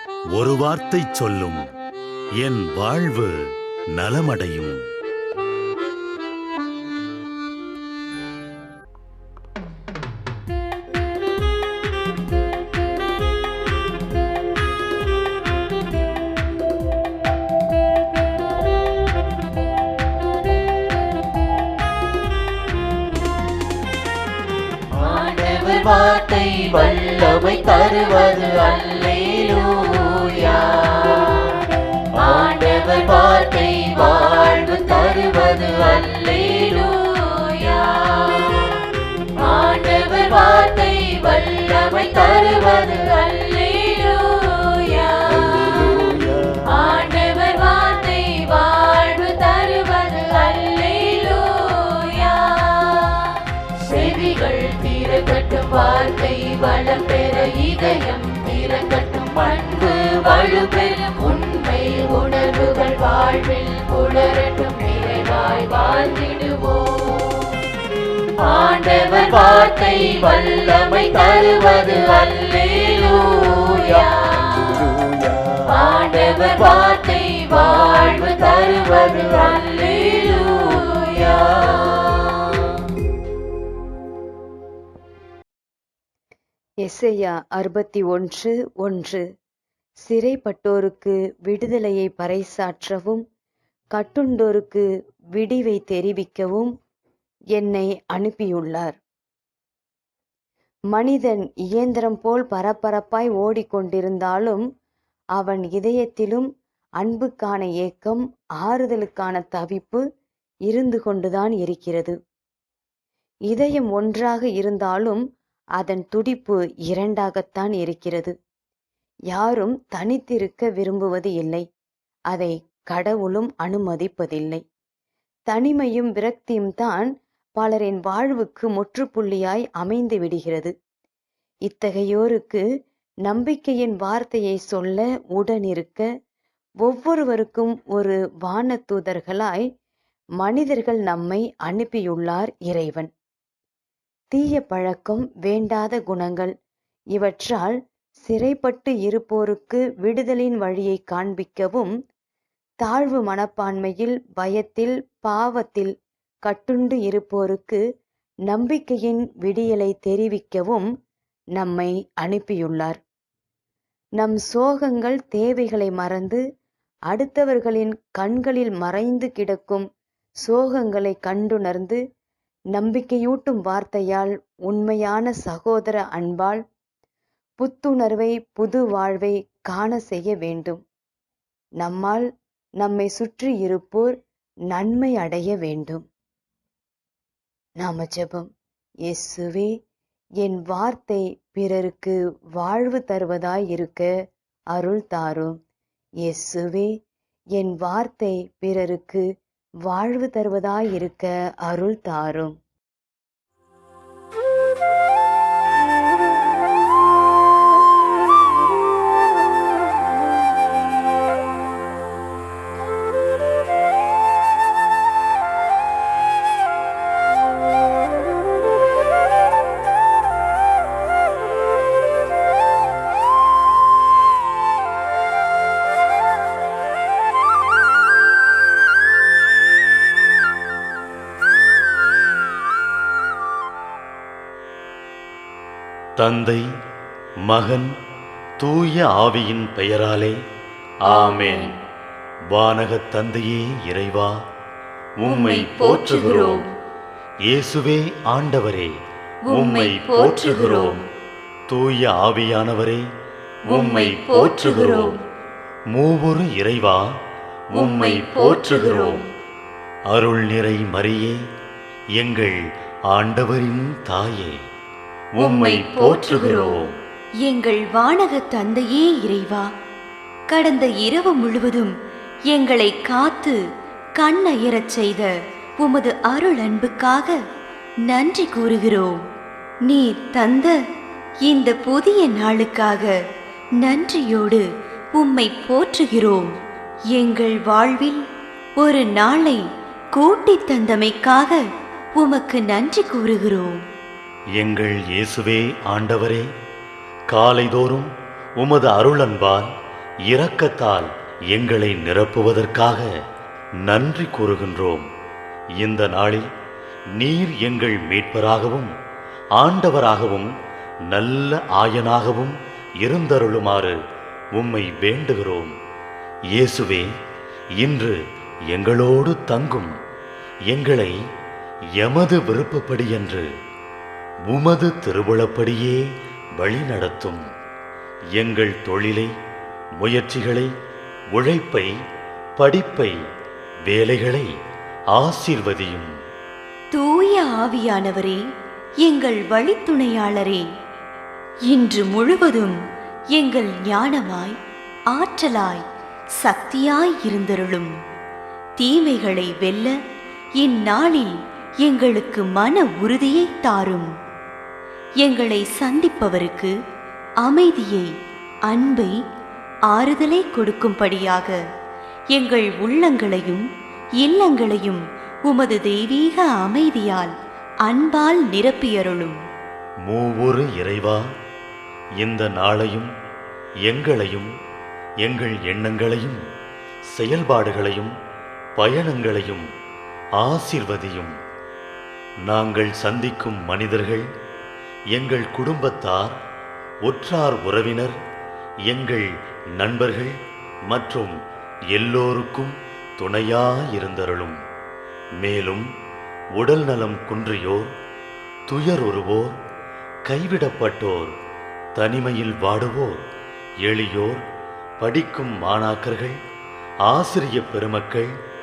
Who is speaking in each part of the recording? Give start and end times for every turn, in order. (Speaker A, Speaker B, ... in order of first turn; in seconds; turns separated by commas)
Speaker A: 0.3-1.6, Speaker A: 2.4-3.4, Speaker A: 4.0-4.8, Speaker B: 25.0-31.6, Speaker B: 32.1-38.8, Speaker B: 39.4-67.4, Speaker B: 68.4-82.6, Speaker C: 86.8-89.2, Speaker C: 90.1-93.2, Speaker C: 93.9-96.7, Speaker C: 97.6-99.0, Speaker C: 100.9-104.6, Speaker C: 105.4-106.5, Speaker C: 107.0-110.0, Speaker C: 110.7-112.2, Speaker C: 113.5-115.2, Speaker C: 115.8-118.3, Speaker C: 119.3-121.7, Speaker C: 122.3-124.6, Speaker C: 125.5-130.7, Speaker C: 131.7-132.6, Speaker C: 133.2-136.1, Speaker C: 136.8-139.7, Speaker C: 140.4-143.1, Speaker C: 144.3-146.5, Speaker C: 147.2-151.9, Speaker C: 152.8-155.9, Speaker C: 156.5-157.8, Speaker C: 158.5-160.9, Speaker C: 161.6-163.0, Speaker C: 164.2-166.4, Speaker C: 167.1-169.8, Speaker C: 170.4-172.0, Speaker C: 172.7-176.6, Speaker C: 177.6-180.8, Speaker C: 181.8-182.3, Speaker C: 182.8-184.1, Speaker C: 184.7-186.1, Speaker C: 187.8-188.5, Speaker C: 189.1-189.7, Speaker C: 190.4-194.1, Speaker C: 194.7-195.6, Speaker C: 196.2-196.9, Speaker C: 197.6-199.3, Speaker C: 199.9-202.6, Speaker A: 236.2-236.7, Speaker A: 237.5-237.9, Speaker A: 238.6-240.4, Speaker A: 241.1-241.7, Speaker D: 241.1-241.8, Speaker A: 242.5-244.3, Speaker A: 245.2-246.6, Speaker D: 245.3-246.7, Speaker A: 247.5-248.9, Speaker D: 249.5-251.0, Speaker A: 249.5-251.0, Speaker A: 251.7-253.0, Speaker A: 253.7-255.1, Speaker D: 253.7-255.2, Speaker A: 255.9-257.1, Speaker A: 257.7-259.2, Speaker D: 257.7-259.3, Speaker A: 260.1-261.4, Speaker A: 262.2-262.6, Speaker A: 263.1-264.6, Speaker A: 265.4-266.9, Speaker D: 265.4-266.8, Speaker D: 267.4-269.7, Speaker D: 270.5-271.9, Speaker D: 272.5-273.6, Speaker D: 274.2-277.4, Speaker D: 278.1-279.2, Speaker D: 279.9-280.8, Speaker D: 281.5-283.1, Speaker D: 283.8-286.5, Speaker D: 287.1-288.2, Speaker D: 288.8-289.6, Speaker D: 290.1-291.6, Speaker D: 292.2-293.8, Speaker A: 294.6-296.5, Speaker A: 297.3-299.7, Speaker A: 300.3-303.1, Speaker A: 303.9-305.1, Speaker A: 305.8-306.5, Speaker A: 307.2-308.9, Speaker A: 309.6-310.5, Speaker A: 311.1-314.0, Speaker A: 314.6-315.7, Speaker A: 316.5-317.1, Speaker A: 317.8-318.2, Speaker A: 318.7-319.9, Speaker A: 320.7-321.1, Speaker A: 322.0-323.5, Speaker A: 324.5-326.0, Speaker A: 326.6-327.4, Speaker A: 328.4-329.3, Speaker A: 330.0-330.7, Speaker A: 331.3-331.9, Speaker A: 332.6-333.1, Speaker A: 333.9-334.5, Speaker A: 335.1-336.1, Speaker D: 336.9-338.4, Speaker D: 339.1-340.6, Speaker D: 341.7-342.8, Speaker D: 343.4-344.6, Speaker D: 345.1-345.8, Speaker D: 346.4-347.9, Speaker D: 348.8-349.9, Speaker D: 350.6-351.3, Speaker D: 351.8-354.1, Speaker D: 355.2-356.7, Speaker D: 357.4-358.1, Speaker D: 358.7-359.1, Speaker D: 359.9-361.6, Speaker D: 362.3-363.6, Speaker D: 364.2-367.3, Speaker D: 367.9-369.4, Speaker A: 370.1-371.2, Speaker A: 372.2-373.1, Speaker A: 373.9-374.5, Speaker A: 375.2-376.4, Speaker A: 377.1-378.1, Speaker A: 378.8-379.7, Speaker A: 380.4-381.3, Speaker A: 382.5-384.3, Speaker A: 385.1-386.4, Speaker A: 387.1-388.2, Speaker A: 388.9-390.4, Speaker A: 390.9-391.4, Speaker A: 391.9-394.6, Speaker A: 395.4-395.9, Speaker A: 396.6-397.9, Speaker A: 398.7-399.6, Speaker A: 400.3-401.3, Speaker A: 402.0-403.2, Speaker A: 403.8-404.4, Speaker A: 405.0-406.4, Speaker A: 407.1-408.3